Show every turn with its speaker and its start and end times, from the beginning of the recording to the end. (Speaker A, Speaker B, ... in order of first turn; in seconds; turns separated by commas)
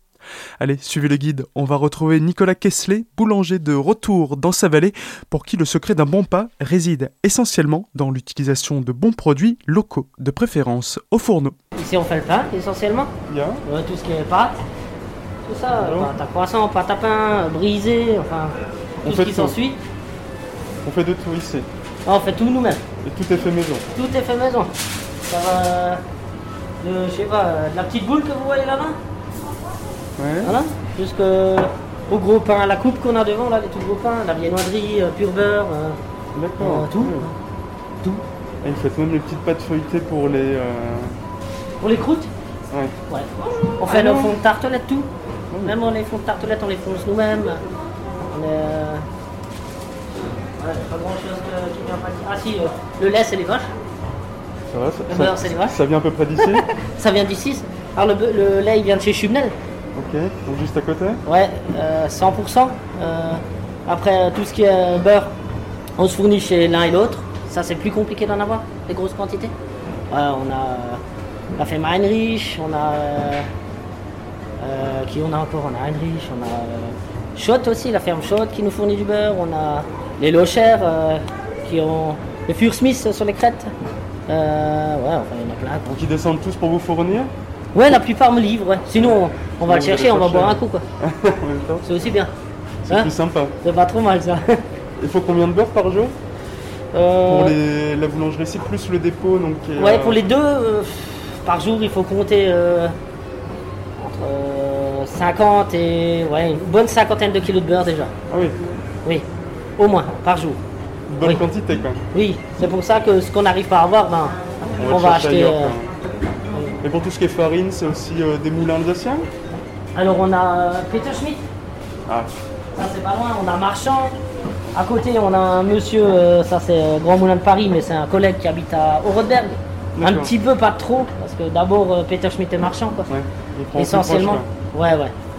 Speaker A: 0.6-11.5, Speaker B: 11.8-13.1, Speaker A: 13.3-13.6, Speaker B: 13.7-14.6, Speaker B: 15.4-19.8, Speaker A: 15.7-16.1, Speaker A: 19.0-19.6, Speaker A: 20.8-21.7, Speaker B: 22.1-22.8, Speaker A: 23.0-23.9, Speaker B: 23.9-24.7, Speaker B: 25.3-26.0, Speaker B: 26.8-29.0, Speaker A: 30.2-30.6, Speaker B: 30.4-36.0, Speaker A: 36.3-37.3, Speaker B: 36.6-37.3, Speaker A: 38.6-41.2, Speaker B: 41.8-42.3, Speaker B: 43.1-45.1, Speaker A: 43.8-44.3, Speaker B: 45.6-47.6, Speaker B: 48.3-49.0, Speaker B: 50.6-53.7, Speaker A: 54.7-56.7, Speaker B: 55.1-55.8, Speaker B: 56.4-59.5, Speaker A: 59.9-61.2, Speaker B: 61.2-65.3, Speaker B: 66.0-69.5, Speaker B: 70.1-71.0, Speaker B: 71.5-73.5, Speaker B: 74.6-83.7, Speaker B: 84.3-85.9, Speaker A: 85.8-87.3, Speaker B: 87.7-90.8, Speaker A: 89.0-91.9, Speaker B: 91.8-92.3, Speaker A: 92.8-93.5, Speaker B: 93.6-94.6, Speaker A: 95.0-96.2, Speaker B: 96.9-97.6, Speaker A: 97.2-100.2, Speaker B: 99.8-102.9, Speaker B: 104.0-108.1, Speaker A: 108.3-108.6, Speaker B: 109.8-110.6, Speaker A: 111.1-112.0, Speaker B: 112.1-115.8, Speaker A: 114.8-115.9, Speaker B: 116.5-116.8, Speaker A: 116.8-119.3, Speaker B: 119.9-121.4, Speaker B: 122.7-124.2, Speaker B: 124.7-133.1, Speaker A: 129.9-130.3, Speaker A: 133.1-134.5, Speaker B: 133.8-135.1